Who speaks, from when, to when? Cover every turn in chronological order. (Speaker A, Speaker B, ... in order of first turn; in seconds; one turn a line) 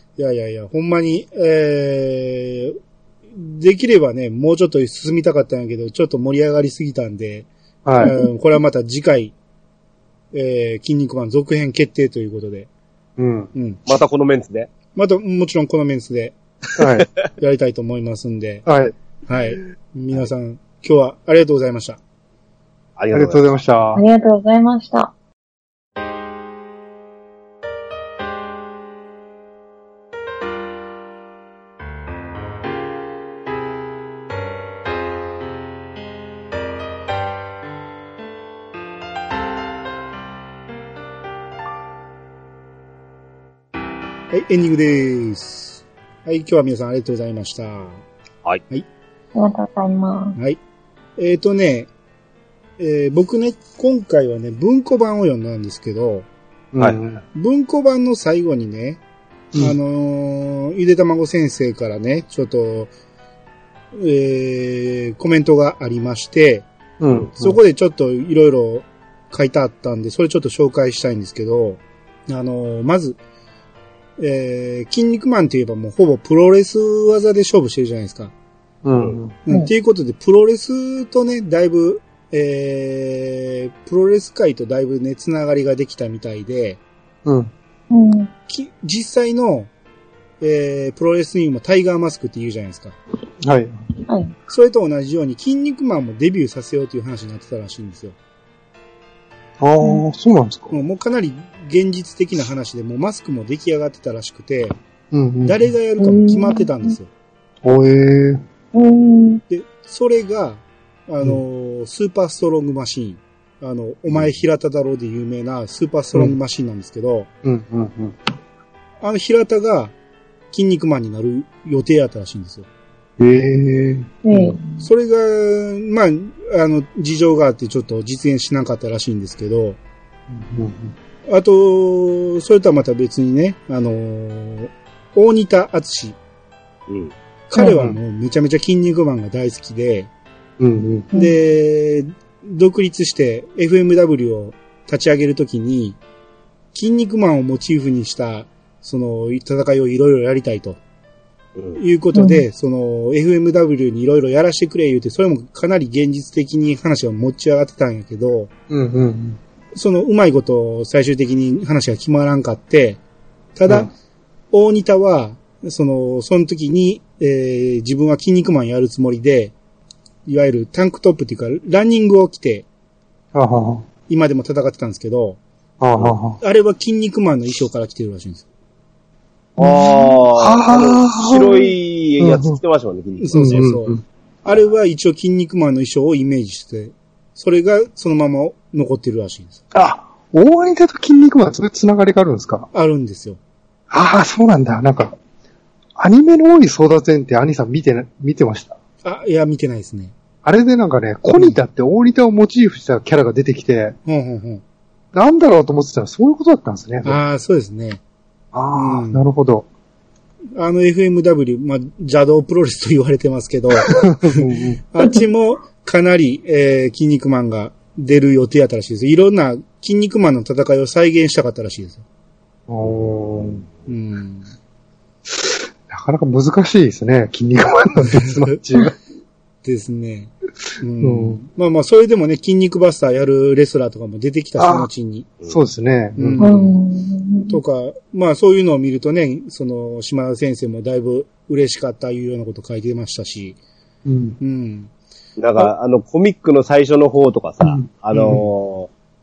Speaker A: 0.2-2.8
Speaker A: 3.3-7.5
Speaker B: 7.8-8.1
Speaker A: 8.0-9.3
Speaker A: 10.3-12.7
Speaker B: 13.2-13.5
Speaker C: 13.8-14.7
Speaker A: 14.9-16.4
Speaker B: 16.8-17.1
Speaker A: 17.4-18.6
Speaker B: 18.6-18.9
Speaker A: 19.3-22.0
Speaker C: 23.0-23.5
Speaker B: 23.1-24.0
Speaker D: 23.9-25.1
Speaker A: 44.3-48.0
Speaker D: 49.3-50.4
Speaker A: 51.2-51.9
Speaker A: 52.8-56.2
Speaker B: 56.7-57.2
Speaker A: 57.3-59.0
Speaker A: 59.6-62.9
Speaker A: 63.9-66.7
Speaker B: 67.0-67.6
Speaker A: 67.3-73.2
Speaker A: 74.2-78.3
Speaker B: 78.8-79.4
Speaker A: 79.5-86.8
Speaker B: 87.2-87.5
Speaker D: 87.9-88.3
Speaker A: 88.5-89.7
Speaker A: 90.4-92.9
Speaker B: 93.4-93.8
Speaker D: 94.1-94.3
Speaker A: 94.5-98.2
Speaker B: 99.6-100.7
Speaker A: 100.7-104.8
Speaker B: 105.1-105.6
Speaker A: 105.4-107.1
Speaker D: 106.0-106.6
Speaker B: 107.6-108.4
Speaker D: 108.7-109.4
Speaker A: 109.5-117.3
Speaker B: 117.4-118.2
Speaker A: 119.0-119.9
Speaker A: 120.5-122.7
Speaker B: 123.2-124.6
Speaker D: 124.2-124.8
Speaker A: 124.8-129.8
Speaker B: 130.3-130.9
Speaker A: 131.3-136.2
Speaker C: 136.9-137.1
Speaker A: 137.5-140.1
Speaker B: 137.7-137.9
Speaker B: 140.6-141.1
Speaker A: 141.1-146.0
Speaker A: 146.7-150.8
Speaker A: 151.8-158.5
Speaker D: 152.1-152.4
Speaker B: 158.7-159.4
Speaker A: 159.7-163.0
Speaker A: 163.5-163.9
Speaker A: 164.5-169.5
Speaker A: 170.2-172.7
Speaker B: 173.3-173.8
Speaker A: 174.1-175.4
Speaker B: 175.8-176.4
Speaker A: 176.4-178.4
Speaker B: 179.6-182.6
Speaker C: 179.6-183.7
Speaker A: 183.2-189.6
Speaker B: 183.3-184.0
Speaker B: 189.7-192.7
Speaker A: 192.7-193.4
Speaker B: 193.9-195.2
Speaker B: 195.9-198.8
Speaker A: 199.0-200.1
Speaker B: 200.4-203.9
Speaker A: 204.1-204.6
Speaker B: 205.1-207.2
Speaker A: 207.0-208.0
Speaker B: 208.5-209.7
Speaker A: 208.7-209.3
Speaker A: 210.6-222.0
Speaker B: 213.9-214.8
Speaker B: 222.7-223.6
Speaker A: 223.8-224.5
Speaker B: 225.3-228.9
Speaker A: 229.6-235.3
Speaker B: 231.0-231.4
Speaker B: 234.6-234.9
Speaker B: 235.5-236.8
Speaker A: 236.2-236.7
Speaker D: 236.4-237.6
Speaker A: 237.5-243.6
Speaker B: 244.0-244.4
Speaker A: 244.4-244.9
Speaker C: 245.4-248.9
Speaker B: 247.6-248.4